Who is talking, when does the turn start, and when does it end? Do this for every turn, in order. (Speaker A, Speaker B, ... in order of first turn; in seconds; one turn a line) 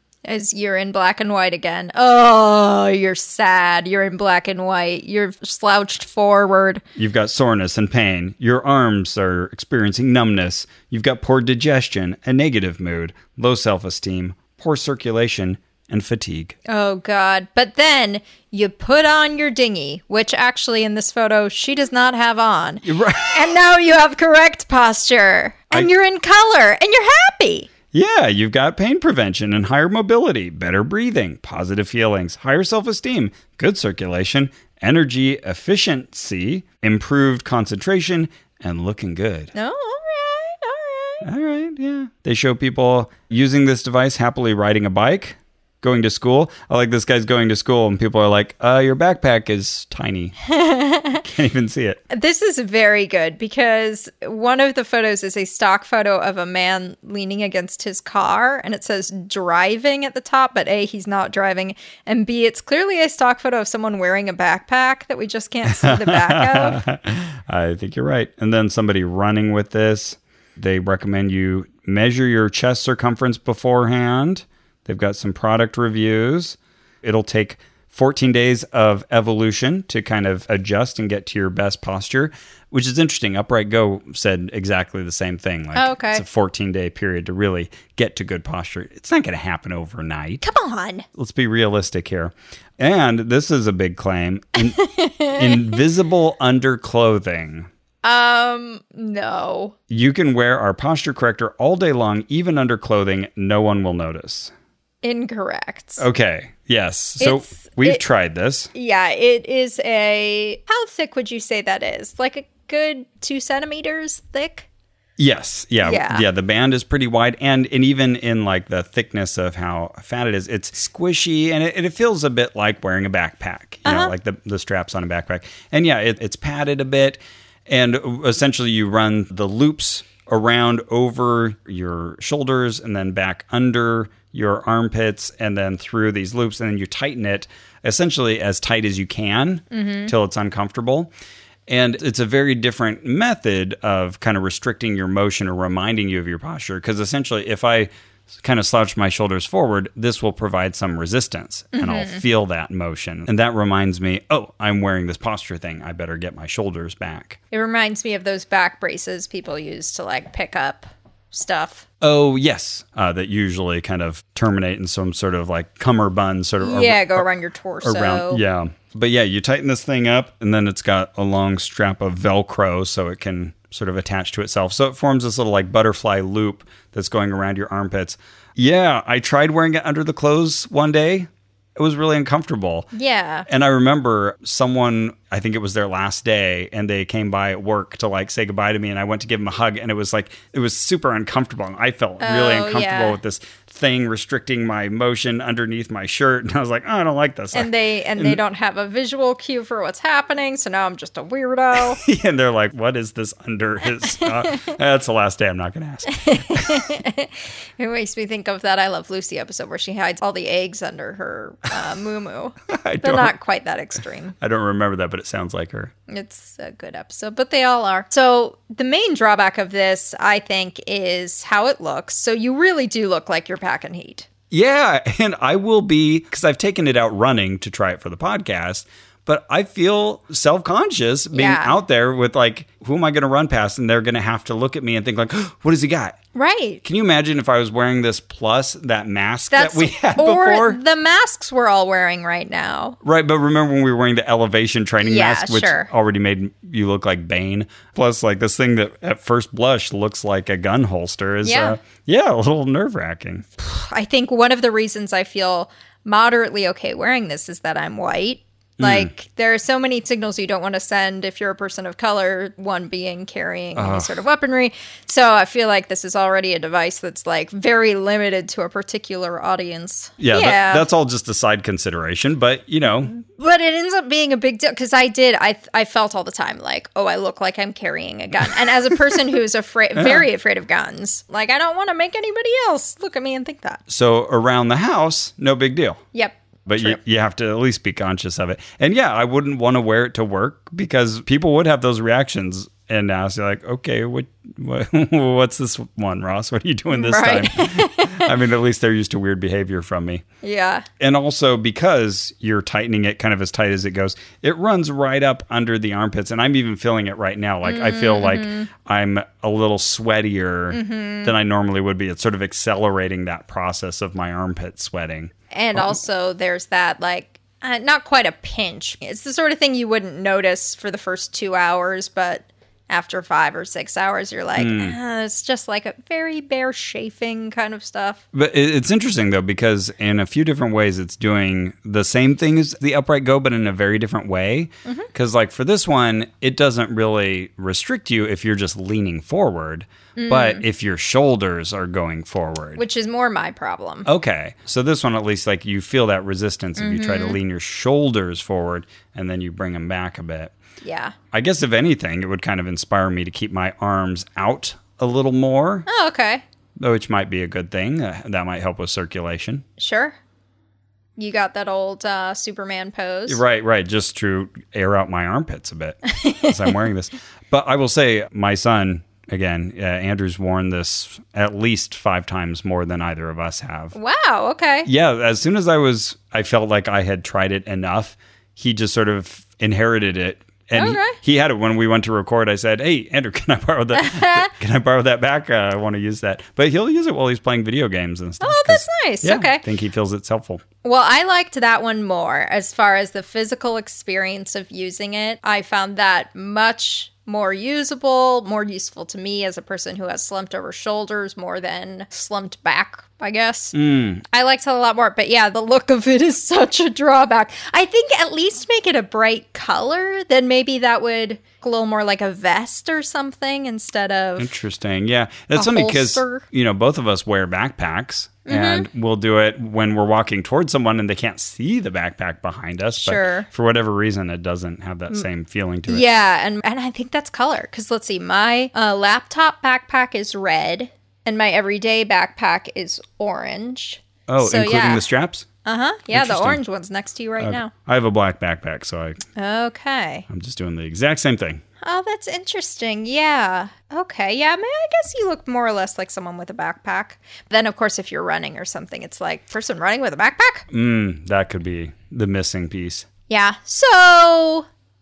Speaker A: 0.2-6.8
Speaker B: 7.0-16.6
Speaker A: 16.7-27.7
Speaker B: 22.8-23.4
Speaker B: 27.9-39.5
Speaker A: 39.5-41.2
Speaker B: 41.2-50.4
Speaker A: 50.5-51.2
Speaker B: 51.2-52.0
Speaker A: 52.1-66.8
Speaker B: 65.7-90.4
Speaker A: 85.7-86.2
Speaker A: 90.4-91.0
Speaker B: 91.1-97.7
Speaker A: 94.8-95.8
Speaker A: 98.0-99.7
Speaker B: 99.9-104.5
Speaker A: 105.0-106.0
Speaker B: 106.0-108.7
Speaker A: 107.2-108.0
Speaker A: 108.7-114.7
Speaker B: 115.2-141.1
Speaker A: 115.8-116.2
Speaker A: 123.8-124.1
Speaker A: 139.7-140.1
Speaker B: 141.7-147.9
Speaker B: 148.4-157.4
Speaker A: 151.7-152.2
Speaker A: 157.5-161.8
Speaker B: 162.0-167.3
Speaker A: 166.6-168.4
Speaker B: 167.8-182.9
Speaker A: 182.9-183.4
Speaker B: 183.5-198.4
Speaker A: 192.2-193.2
Speaker A: 197.5-202.0
Speaker B: 201.8-206.8
Speaker A: 204.2-204.6
Speaker A: 206.1-214.3
Speaker B: 212.7-213.3
Speaker B: 214.4-215.9
Speaker A: 216.1-224.2
Speaker B: 224.5-236.2
Speaker A: 231.3-231.8
Speaker A: 236.3-236.8
Speaker B: 236.8-240.8
Speaker A: 239.5-243.0
Speaker B: 243.0-253.4
Speaker A: 245.0-245.9
Speaker A: 251.4-251.8
Speaker A: 253.6-270.9
Speaker B: 258.8-259.1
Speaker B: 263.7-264.2
Speaker B: 270.2-273.1
Speaker A: 273.1-283.8
Speaker B: 283.9-286.0
Speaker A: 286.1-287.0
Speaker B: 286.6-300.2
Speaker A: 296.9-298.3
Speaker A: 300.4-300.9
Speaker B: 301.0-316.0
Speaker A: 307.6-308.7
Speaker A: 310.7-311.3
Speaker A: 315.5-328.2
Speaker B: 324.6-325.0
Speaker B: 328.3-342.8
Speaker A: 340.1-340.6
Speaker A: 342.8-344.1
Speaker B: 344.1-350.5
Speaker A: 346.8-347.4
Speaker A: 350.8-351.1
Speaker B: 351.3-355.9
Speaker A: 355.9-356.4
Speaker B: 356.8-359.6
Speaker A: 359.8-360.1
Speaker A: 361.2-363.4
Speaker B: 363.3-373.9
Speaker A: 366.1-366.5
Speaker A: 373.9-374.9
Speaker B: 374.9-390.6
Speaker A: 380.8-381.2
Speaker A: 383.9-384.5
Speaker A: 388.4-389.6
Speaker A: 390.8-414.6
Speaker B: 403.7-404.2
Speaker B: 414.4-426.1
Speaker A: 415.5-416.4
Speaker A: 418.4-418.9
Speaker A: 422.9-423.5
Speaker A: 425.9-435.1
Speaker B: 434.3-435.5
Speaker A: 435.6-437.7
Speaker B: 436.1-436.6
Speaker B: 437.4-439.2
Speaker A: 439.4-440.2
Speaker B: 440.3-441.6
Speaker A: 441.8-450.7
Speaker B: 450.7-453.1
Speaker A: 453.3-454.6